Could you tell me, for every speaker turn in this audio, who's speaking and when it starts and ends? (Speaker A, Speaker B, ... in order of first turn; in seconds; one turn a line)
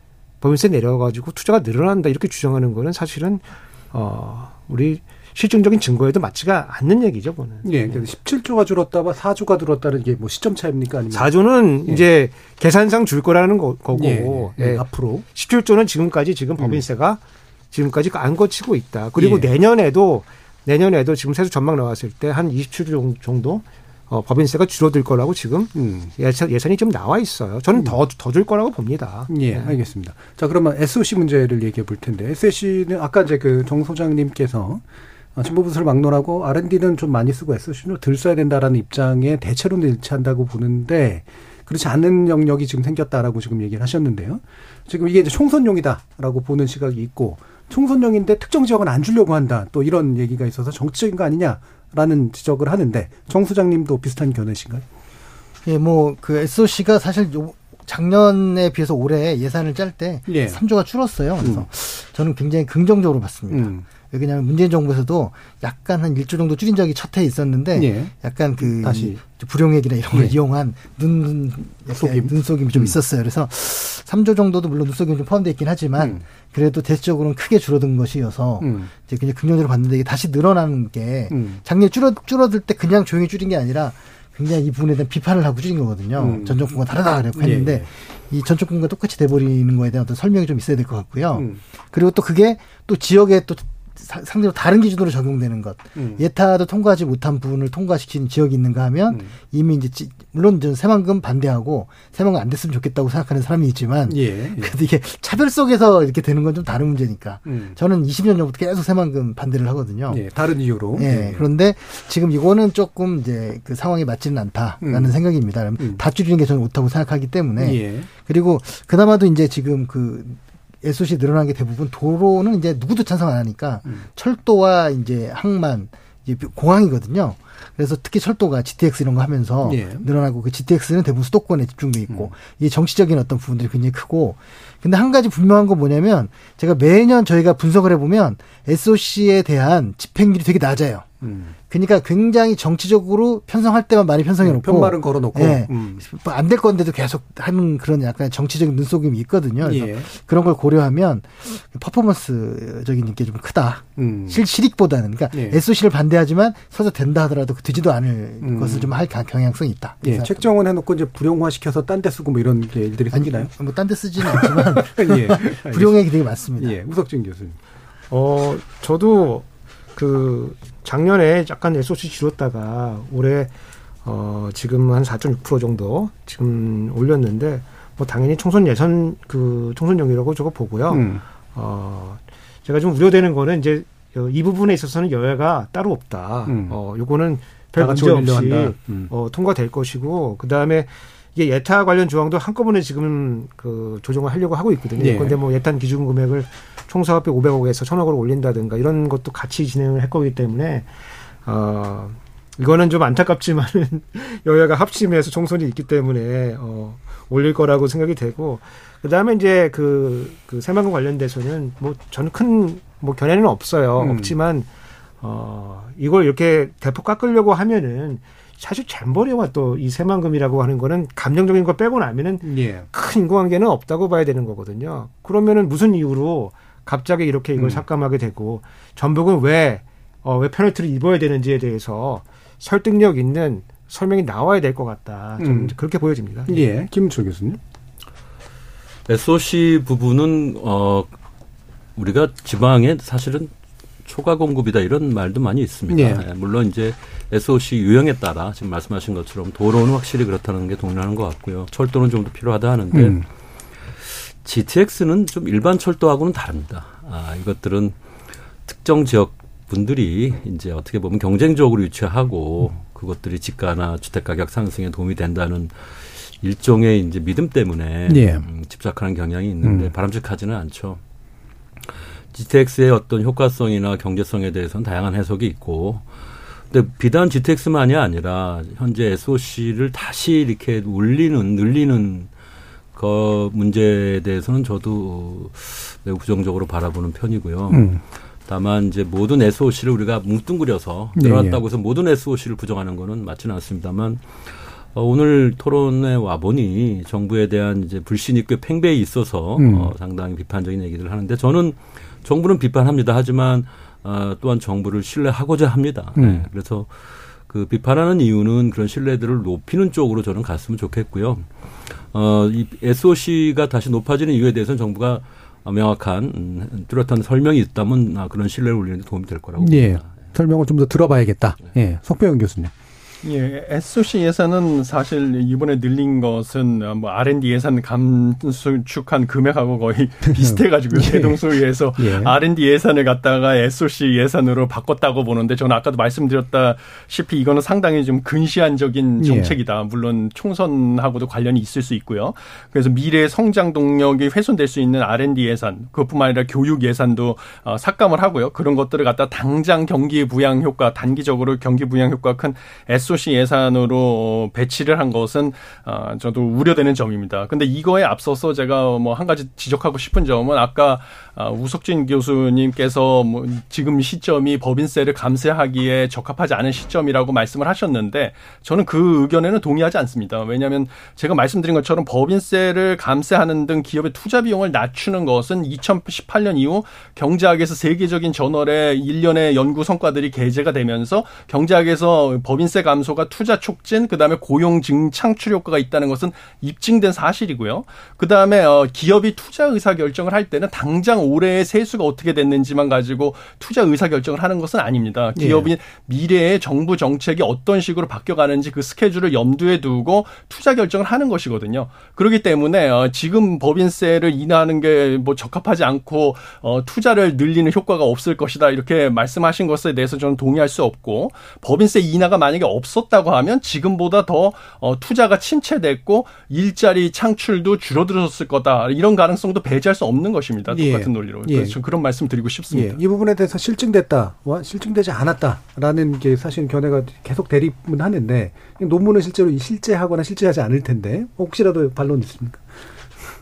Speaker A: 0.4-8.0
Speaker B: 7.6-11.3
Speaker A: 11.1-17.2
Speaker B: 13.9-15.2
Speaker B: 16.6-16.9
Speaker A: 17.7-29.8
Speaker B: 19.2-19.5
Speaker B: 25.7-26.1
Speaker B: 29.3-34.8
Speaker B: 35.4-54.9
Speaker C: 55.6-110.2
Speaker B: 60.3-60.6
Speaker B: 61.4-61.7
Speaker B: 63.5-63.9
Speaker B: 67.7-69.2
Speaker B: 70.1-70.4
Speaker B: 72.0-73.0
Speaker B: 76.0-76.2
Speaker B: 78.6-78.9
Speaker B: 81.3-81.6
Speaker B: 86.2-86.6
Speaker B: 87.3-87.9
Speaker B: 91.3-91.6
Speaker B: 96.0-96.2
Speaker B: 104.1-104.7
Speaker B: 107.5-107.8
Speaker B: 110.1-111.5
Speaker C: 110.9-141.1
Speaker B: 114.8-115.2
Speaker B: 115.8-116.0
Speaker B: 117.6-118.1
Speaker B: 129.7-130.1
Speaker B: 141.2-141.6
Speaker C: 141.7-160.5
Speaker B: 144.4-146.0
Speaker B: 149.6-150.1
Speaker B: 154.0-154.4
Speaker B: 155.3-155.6
Speaker B: 158.4-158.9
Speaker B: 160.0-163.5
Speaker C: 163.1-166.8
Speaker B: 164.2-166.0
Speaker B: 166.6-167.6
Speaker A: 168.1-173.5
Speaker A: 174.0-200.9
Speaker B: 180.9-181.2
Speaker B: 186.5-186.8
Speaker B: 187.8-189.1
Speaker B: 195.0-195.4
Speaker A: 201.4-214.7
Speaker B: 214.0-214.4
Speaker A: 215.2-236.6
Speaker B: 222.4-222.9
Speaker B: 227.6-227.8
Speaker B: 235.4-235.8
Speaker B: 236.5-237.6
Speaker D: 239.1-241.2
Speaker D: 242.0-243.5
Speaker D: 244.1-253.2
Speaker B: 245.9-246.2
Speaker B: 252.9-253.2
Speaker D: 254.4-257.9
Speaker D: 258.7-265.7
Speaker D: 266.4-271.0
Speaker B: 268.1-268.5
Speaker B: 269.6-269.9
Speaker D: 272.3-276.1
Speaker D: 276.7-282.3
Speaker D: 282.9-287.9
Speaker B: 287.7-288.0
Speaker D: 288.5-294.2
Speaker B: 291.2-291.6
Speaker D: 294.9-306.9
Speaker B: 299.6-299.9
Speaker B: 306.2-306.5
Speaker D: 307.5-311.5
Speaker D: 312.1-320.1
Speaker B: 319.6-322.7
Speaker E: 323.2-423.0
Speaker B: 330.4-331.4
Speaker B: 332.0-332.4
Speaker B: 339.2-339.6
Speaker B: 395.4-395.7
Speaker B: 420.7-421.8
Speaker B: 422.7-432.8